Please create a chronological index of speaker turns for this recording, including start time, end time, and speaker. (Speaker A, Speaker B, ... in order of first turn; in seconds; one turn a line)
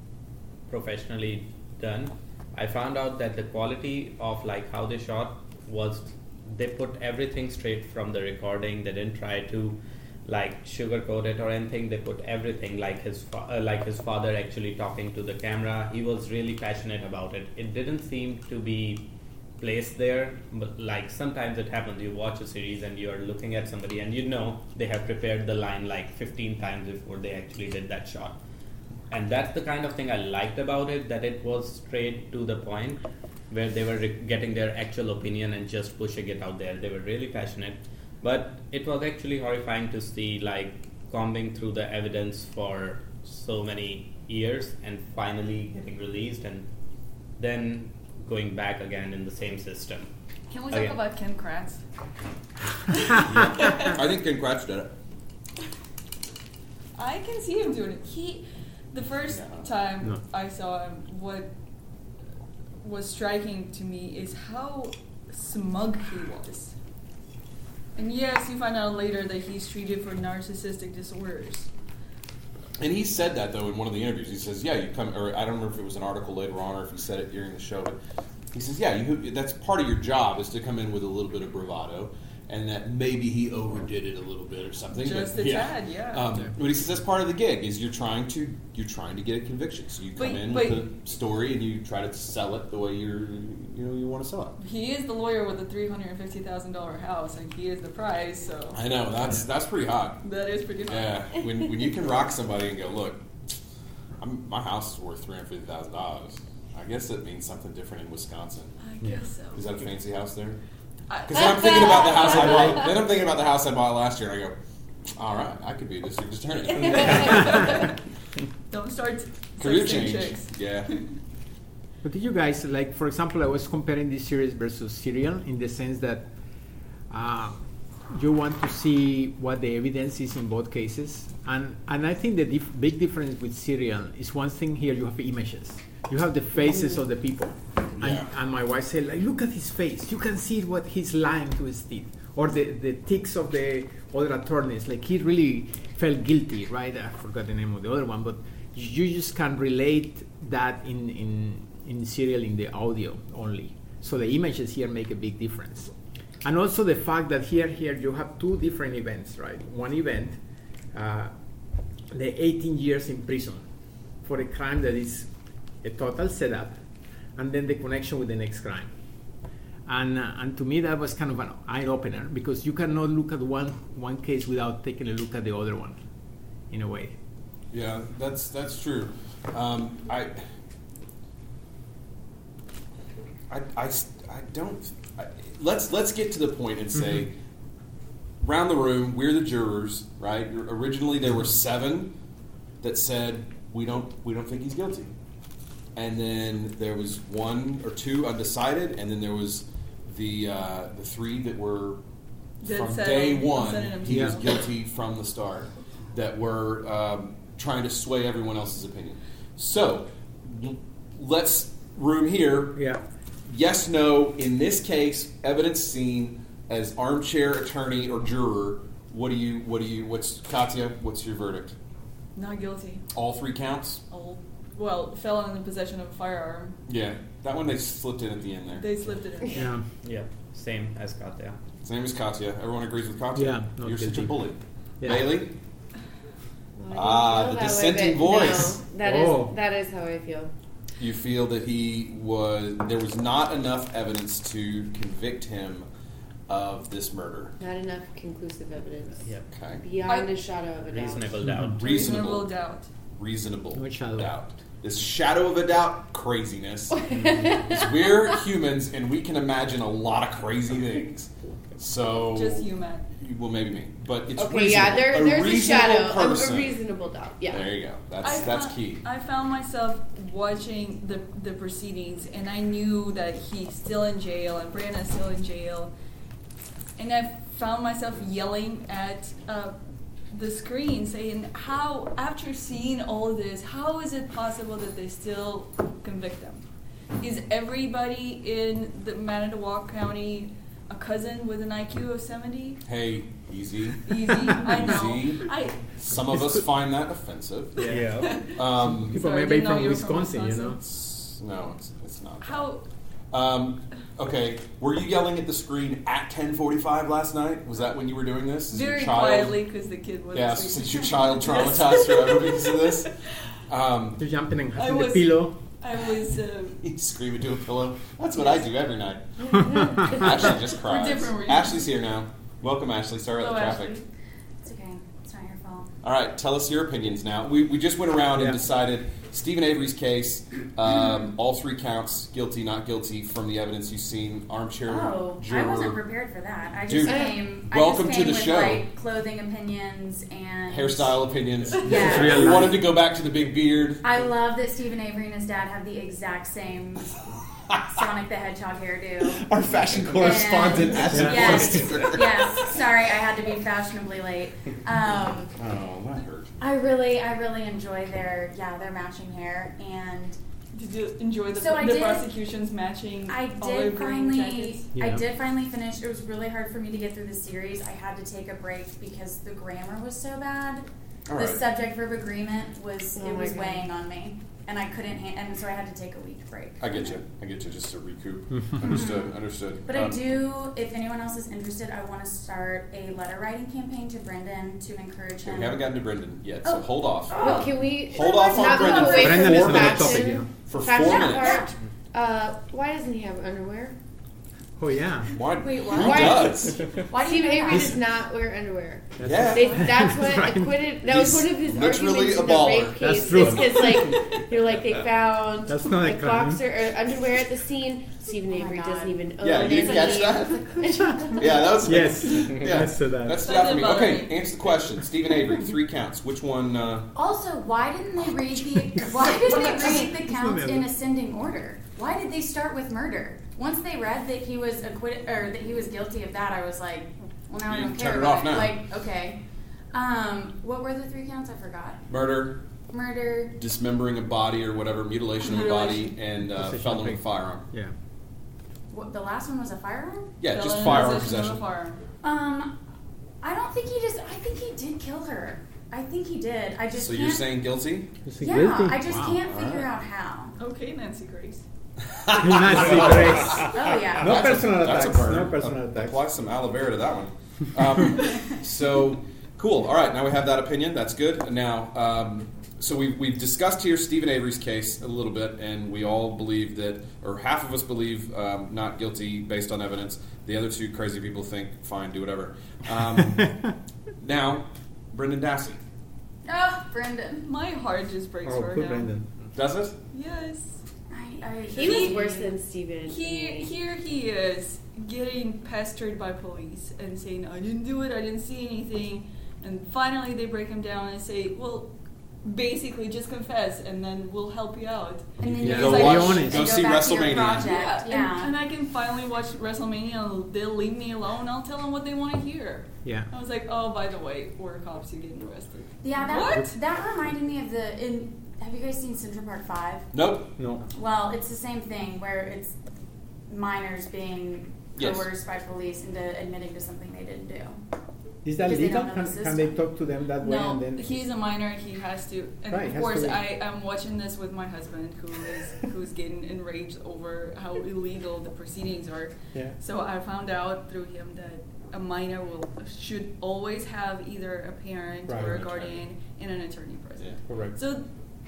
Speaker A: 0.7-28.4
Speaker A: 29.1-46.7
Speaker A: 47.4-50.1
Speaker B: 50.5-51.8
Speaker A: 50.7-51.0
Speaker B: 52.9-53.9
Speaker C: 53.8-54.9
Speaker B: 57.0-61.5
Speaker C: 59.3-59.7
Speaker B: 62.8-66.7
Speaker B: 68.0-71.7
Speaker C: 72.8-78.0
Speaker C: 78.5-94.6
Speaker B: 84.9-86.3
Speaker B: 90.2-90.9
Speaker B: 94.6-98.8
Speaker C: 98.7-100.2
Speaker B: 100.2-101.3
Speaker C: 100.9-103.3
Speaker C: 104.2-108.7
Speaker B: 108.8-109.7
Speaker C: 109.5-110.6
Speaker B: 111.1-112.4
Speaker C: 111.3-114.5
Speaker D: 111.3-112.8
Speaker C: 115.1-117.9
Speaker B: 116.9-117.9
Speaker B: 118.7-121.0
Speaker C: 119.6-120.9
Speaker E: 122.0-126.3
Speaker E: 127.1-127.6
Speaker E: 128.1-155.9
Speaker C: 137.9-138.3
Speaker E: 156.4-160.4
Speaker E: 160.9-161.3
Speaker E: 162.1-163.7
Speaker E: 164.2-165.3
Speaker E: 165.8-166.8
Speaker E: 167.3-168.9
Speaker E: 169.8-176.0
Speaker E: 176.7-177.2
Speaker C: 177.7-180.4
Speaker C: 183.5-187.3
Speaker C: 188.4-192.2
Speaker C: 192.8-195.1
Speaker C: 195.9-202.0
Speaker B: 202.6-204.5
Speaker C: 202.6-212.8
Speaker E: 204.1-204.4
Speaker E: 212.8-213.0
Speaker C: 213.4-221.7
Speaker B: 222.3-223.1
Speaker C: 223.1-224.0
Speaker B: 224.1-226.8
Speaker C: 226.9-228.9
Speaker B: 228.8-229.7
Speaker E: 229.5-229.8
Speaker A: 230.0-231.6
Speaker C: 231.8-235.5
Speaker E: 233.3-234.4
Speaker E: 235.0-235.4
Speaker D: 236.8-240.5
Speaker C: 236.9-238.8
Speaker E: 239.0-239.5
Speaker C: 241.0-245.9
Speaker C: 246.5-247.6
Speaker D: 247.6-249.3
Speaker C: 249.5-249.8
Speaker D: 249.8-251.4
Speaker A: 250.8-252.1
Speaker C: 251.7-252.5
Speaker B: 251.8-252.9
Speaker C: 253.2-262.7
Speaker E: 253.7-254.3
Speaker D: 257.0-257.8
Speaker B: 262.3-263.1
Speaker C: 263.2-266.8
Speaker D: 264.3-267.7
Speaker C: 267.5-269.0
Speaker B: 268.2-275.9
Speaker B: 277.0-279.8
Speaker B: 280.3-286.6
Speaker B: 287.2-292.8
Speaker C: 292.9-299.2
Speaker B: 294.1-295.8
Speaker E: 297.8-300.8
Speaker B: 297.9-300.8
Speaker C: 300.8-302.7
Speaker B: 302.4-302.8
Speaker C: 303.3-309.6
Speaker B: 308.7-313.1
Speaker C: 310.3-313.1
Speaker C: 313.7-314.2
Speaker E: 314.2-315.6
Speaker B: 314.7-316.8
Speaker C: 316.8-324.0
Speaker D: 319.4-320.4
Speaker E: 319.6-319.9
Speaker B: 320.1-321.9
Speaker B: 323.4-324.0
Speaker F: 324.6-325.9
Speaker C: 326.0-336.0
Speaker F: 330.9-331.2
Speaker F: 334.9-341.2
Speaker C: 336.8-338.9
Speaker D: 337.0-337.4
Speaker C: 340.7-344.1
Speaker F: 341.8-342.8
Speaker E: 342.1-342.7
Speaker F: 344.0-347.2
Speaker F: 347.9-349.4
Speaker C: 349.2-352.8
Speaker F: 350.1-355.5
Speaker E: 351.1-351.8
Speaker C: 355.6-356.6
Speaker F: 356.6-360.4
Speaker B: 360.7-364.9
Speaker F: 361.6-362.3
Speaker F: 363.3-377.1
Speaker E: 364.9-365.2
Speaker C: 371.3-371.6
Speaker D: 373.1-373.9
Speaker C: 376.8-380.2
Speaker E: 378.5-378.8
Speaker F: 378.8-385.9
Speaker C: 385.4-387.6
Speaker F: 386.6-390.3
Speaker D: 387.4-393.9
Speaker C: 388.1-391.7
Speaker E: 389.2-390.5
Speaker F: 391.0-391.7
Speaker E: 394.8-395.3
Speaker C: 395.3-396.9
Speaker F: 395.6-398.0
Speaker D: 395.9-411.7
Speaker E: 399.2-400.9
Speaker C: 399.2-399.9
Speaker C: 401.1-404.2
Speaker E: 403.0-404.2
Speaker E: 405.7-406.6
Speaker F: 408.5-410.2
Speaker C: 409.4-417.1
Speaker E: 411.8-413.5
Speaker B: 413.4-414.5
Speaker F: 417.1-429.4
Speaker E: 419.3-420.9
Speaker C: 427.6-428.8
Speaker F: 429.9-432.0
Speaker C: 432.1-432.6
Speaker F: 432.9-433.6
Speaker C: 433.6-437.7
Speaker B: 435.4-436.1
Speaker E: 436.5-437.9
Speaker F: 438.9-440.3
Speaker C: 440.4-441.6
Speaker B: 440.5-442.0
Speaker F: 442.2-442.7
Speaker F: 443.4-447.4
Speaker C: 446.9-448.1
Speaker E: 448.2-449.4
Speaker F: 448.4-450.6
Speaker C: 449.2-449.9
Speaker B: 450.6-451.6
Speaker C: 452.0-473.6
Speaker E: 452.3-456.2
Speaker F: 453.5-454.5
Speaker C: 474.2-475.8
Speaker F: 476.4-477.5
Speaker B: 477.4-479.1
Speaker E: 478.4-479.3
Speaker C: 479.5-479.9
Speaker B: 480.1-480.8
Speaker F: 481.1-482.6
Speaker D: 481.7-483.7
Speaker B: 481.8-482.2
Speaker B: 483.1-491.9
Speaker B: 492.4-496.6
Speaker F: 495.4-498.5
Speaker C: 495.5-497.8
Speaker E: 495.6-496.7
Speaker B: 497.5-506.8
Speaker F: 506.0-510.1
Speaker C: 510.1-510.5
Speaker E: 510.6-510.8
Speaker F: 510.9-512.7
Speaker F: 513.5-517.8
Speaker C: 515.0-515.3
Speaker E: 518.4-521.2
Speaker F: 518.6-519.8
Speaker B: 520.5-538.1
Speaker E: 522.7-523.4
Speaker E: 535.3-535.5
Speaker C: 535.4-536.0
Speaker E: 537.5-537.8